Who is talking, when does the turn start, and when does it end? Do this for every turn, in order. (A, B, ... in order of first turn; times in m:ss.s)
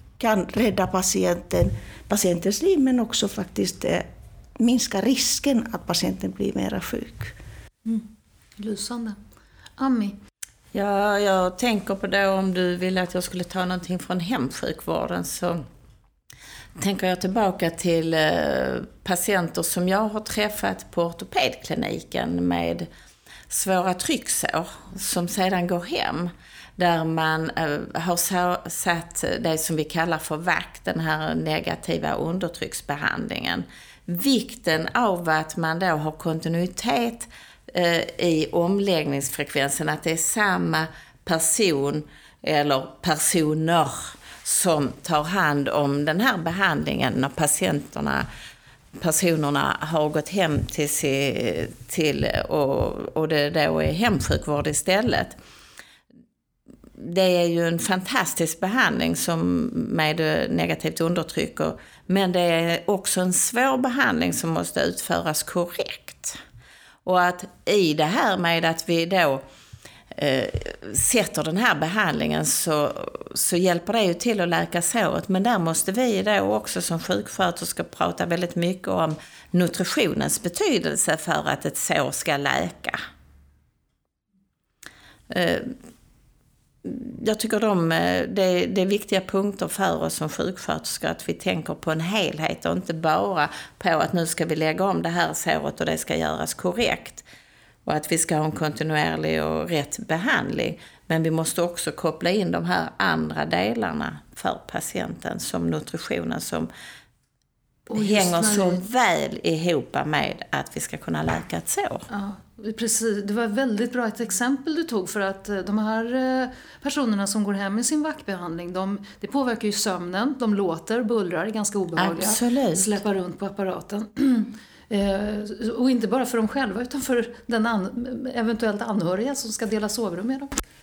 0:00.2-0:04.1 A
0:04.6-0:07.3 A
0:07.8-0:09.2 B
0:09.8-0:10.2 B
0:10.7-0:15.6 C
0:16.8-0:22.9 C
0:23.5-0:48.3 C
0:49.0-0:55.4 C
0:57.0-1:06.4 C
1:07.0-1:09.4 C
1:10.1-1:23.0 C
1:25.3-1:25.8 C
1:26.8-1:37.2 C
1:37.8-1:46.7 C
1:47.9-1:48.8 B
1:47.9-1:52.0 C
1:52.1-2:10.5 B
2:02.0-2:02.9 C